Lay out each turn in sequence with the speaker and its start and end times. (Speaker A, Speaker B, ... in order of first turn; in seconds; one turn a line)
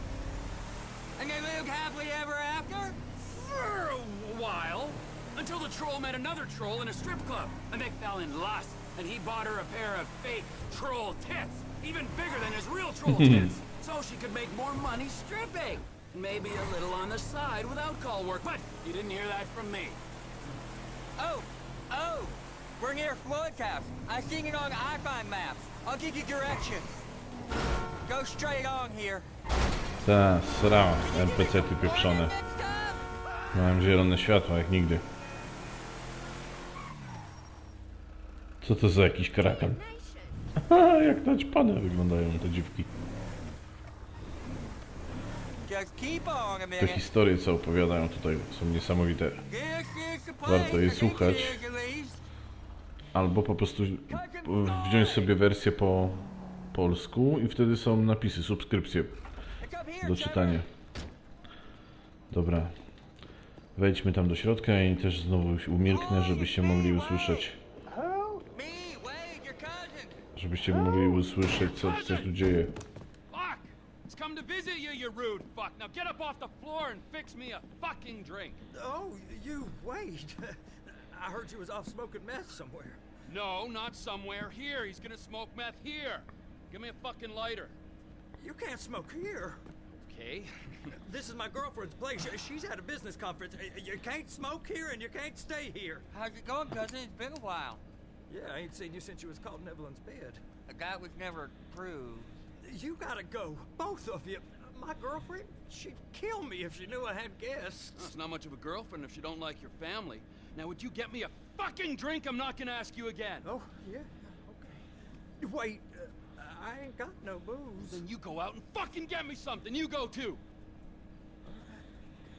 Speaker A: 1.2-3.0
Speaker B: 3.2-20.0
Speaker C: 13.1-13.6
Speaker A: 21.2-27.0
Speaker A: 28.0-29.3
Speaker C: 30.0-32.3
Speaker A: 31.0-33.1
Speaker C: 33.5-35.0
Speaker C: 38.6-39.9
Speaker C: 40.5-42.9
Speaker A: 45.6-47.0
Speaker C: 46.8-49.4
Speaker A: 49.5-52.2
Speaker C: 50.5-51.6
Speaker C: 53.1-59.1
Speaker A: 54.1-55.3
Speaker A: 59.6-60.6
Speaker C: 60.0-60.7
Speaker C: 62.3-62.7
Speaker C: 63.8-67.6
Speaker A: 65.9-67.5
Speaker D: 68.0-68.3
Speaker A: 68.4-70.2
Speaker C: 70.3-72.7
Speaker B: 71.5-72.3
Speaker B: 73.3-78.6
Speaker D: 78.7-83.0
Speaker B: 83.2-87.8
Speaker D: 88.4-89.6
Speaker B: 89.9-90.9
Speaker D: 91.0-96.0
Speaker A: 96.1-97.8
Speaker D: 98.3-100.4
Speaker A: 100.7-102.3
Speaker D: 102.6-108.1
Speaker B: 107.9-113.5
Speaker D: 113.4-114.8
Speaker D: 115.4-118.0
Speaker B: 117.8-120.4
Speaker D: 121.4-121.8